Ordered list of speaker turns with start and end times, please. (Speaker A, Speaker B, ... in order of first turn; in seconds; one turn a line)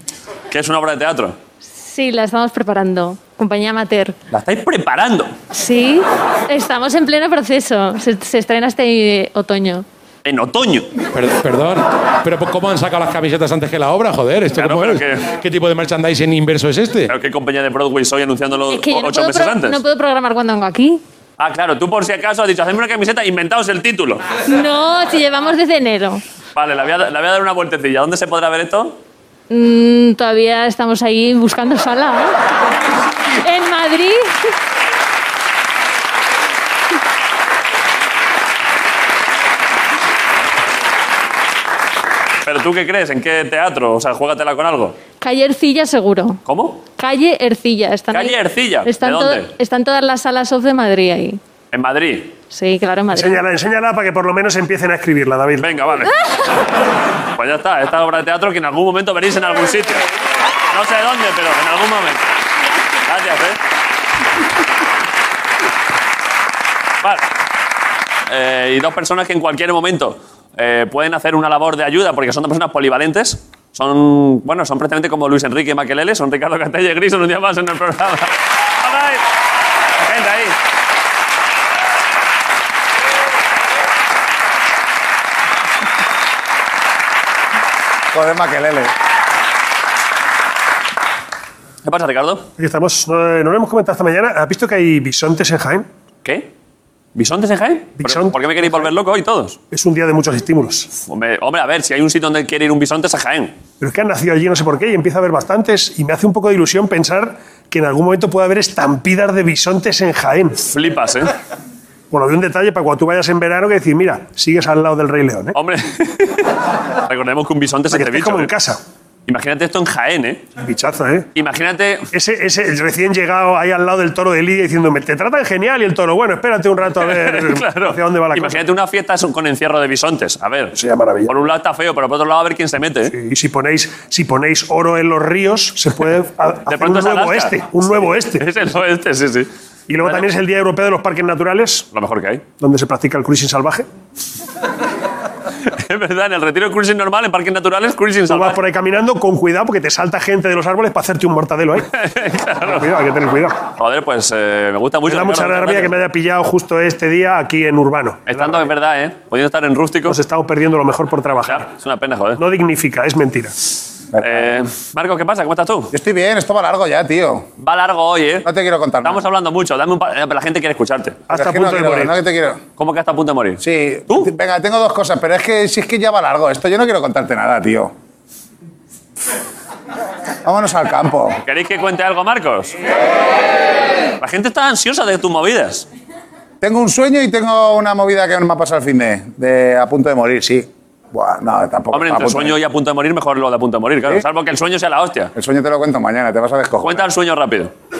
Speaker A: 0.5-1.4
Speaker B: 1.7-4.1
Speaker A: 4.3-5.3
Speaker B: 5.5-9.8
Speaker A: 10.2-10.9
Speaker C: 11.1-17.1
Speaker A: 14.5-15.3
Speaker A: 17.1-19.8
Speaker B: 18.7-21.0
Speaker A: 21.4-24.3
Speaker B: 24.4-26.2
Speaker A: 26.5-29.0
Speaker B: 29.5-32.4
Speaker B: 33.3-34.5
Speaker A: 42.4-45.0
Speaker B: 45.2-46.4
Speaker A: 46.4-46.8
Speaker B: 47.0-51.4
Speaker A: 48.1-49.5
Speaker A: 51.7-52.3
Speaker B: 52.5-53.4
Speaker D: 53.1-55.7
Speaker A: 55.6-56.2
Speaker A: 57.3-60.0
Speaker A: 60.7-62.3
Speaker A: 63.0-63.6
Speaker A: 67.0-67.3
Speaker A: 68.3-79.2
Speaker A: 80.0-80.6
Speaker E: 88.1-88.9
Speaker A: 91.8-92.5
Speaker D: 92.6-95.9
Speaker A: 96.2-96.5
Speaker A: 97.1-99.6
Speaker D: 98.0-98.4
Speaker D: 99.7-100.9
Speaker A: 100.9-103.5
Speaker D: 103.8-110.6
Speaker A: 110.6-111.3
Speaker D: 112.1-115.5
Speaker A: 115.5-118.5
Speaker D: 117.9-118.8
Speaker A: 119.3-120.4
Speaker D: 120.6-121.3
Speaker A: 121.3-122.1
Speaker D: 122.1-128.6
Speaker A: 127.0-133.1
Speaker D: 130.7-131.3
Speaker D: 133.1-138.5
Speaker A: 136.7-139.5
Speaker D: 139.9-141.9
Speaker A: 141.9-142.4
Speaker D: 142.6-143.9
Speaker A: 145.6-148.6
Speaker D: 148.3-151.9
Speaker A: 151.9-152.9
Speaker D: 152.6-153.6
Speaker A: 153.8-155.9
Speaker D: 155.1-158.7
Speaker A: 158.3-160.2
Speaker D: 160.1-161.7
Speaker A: 161.4-162.4
Speaker D: 162.4-163.5
Speaker E: 164.1-164.6
Speaker A: 164.2-165.9
Speaker E: 165.9-167.5
Speaker A: 167.6-168.5
Speaker E: 168.4-169.2
Speaker A: 169.0-171.2
Speaker D: 171.3-172.2
Speaker E: 171.3-172.6
Speaker A: 172.8-174.3
Speaker E: 173.6-177.9
Speaker E: 180.4-181.4
Speaker A: 181.4-182.7
Speaker A: 184.2-185.9
Speaker E: 186.6-192.6
Speaker A: 191.9-195.3
Speaker E: 195.3-197.1
Speaker A: 196.8-197.7